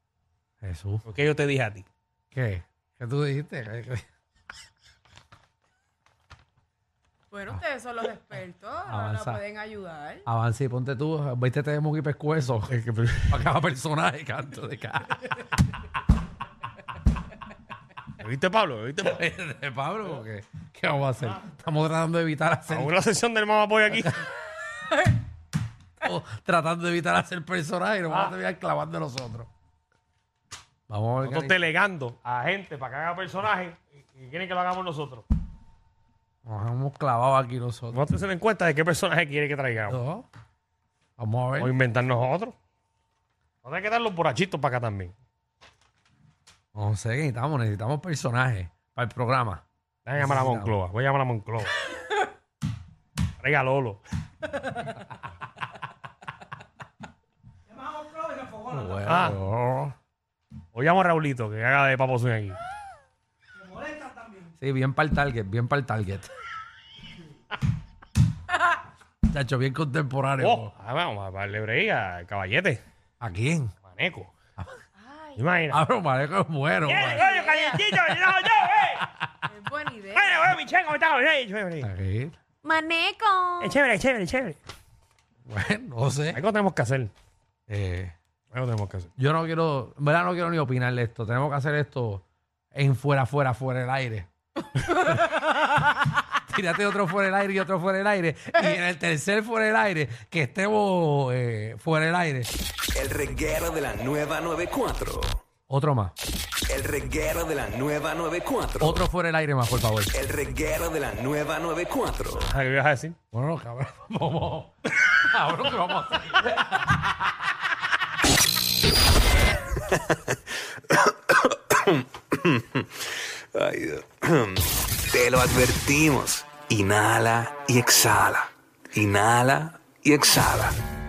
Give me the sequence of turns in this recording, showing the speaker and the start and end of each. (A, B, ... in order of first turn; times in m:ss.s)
0:00.6-0:01.0 A
0:01.1-0:01.8 B
0:02.3-0:04.0 A
0:07.3-0:10.2 C
0:08.9-0:09.4 A
0:10.2-0:12.7 A
0:12.7-0:13.4 B
0:13.3-0:15.3 A
0:18.2-0:19.2 B
0:19.1-0:22.9 A
0:22.7-0:24.1 B
0:26.0-0:29.5 A
0:28.1-0:28.3 B
0:30.9-0:31.6 A
0:31.2-0:35.2 B
0:36.4-0:38.0 A
0:37.9-0:40.0 B
0:39.9-0:40.2 A
0:41.2-0:41.7 A
0:41.6-0:42.5 B
0:43.6-0:45.1 B
0:46.7-0:49.6 A
0:50.0-0:51.7 B
0:50.2-0:50.7 A
0:53.4-0:54.0 B
0:58.4-0:59.9 A
0:59.0-0:59.4 B
1:00.7-1:02.6 B
1:04.6-1:06.3 A
1:09.3-1:10.7 A
1:10.4-1:12.8 B
1:13.2-1:13.7 A
1:13.8-1:14.3 B
1:15.0-1:15.4 C
1:15.4-1:15.8 B
1:15.7-1:17.3 A
1:16.9-1:19.1 B
1:17.1-1:17.8 C
1:19.5-1:20.4 C
1:20.1-1:21.9 B
1:21.8-1:22.3 A
1:22.6-1:23.7 C
1:23.6-1:24.6 B
1:25.5-1:26.4 A
1:26.3-1:27.1 B
1:27.7-1:28.1 A
1:28.5-1:29.1 B
1:29.2-1:32.2 A
1:32.7-1:34.3 A
1:34.9-1:35.2 C
1:36.5-1:42.5 A
1:43.0-1:45.4 D
1:45.7-1:46.1 A
1:46.7-1:48.9 D
1:48.8-1:50.1 A
1:50.1-1:52.4 D
1:52.5-1:53.2 B
1:53.3-1:57.2 A
2:03.6-2:04.0 D
2:05.1-2:10.7 D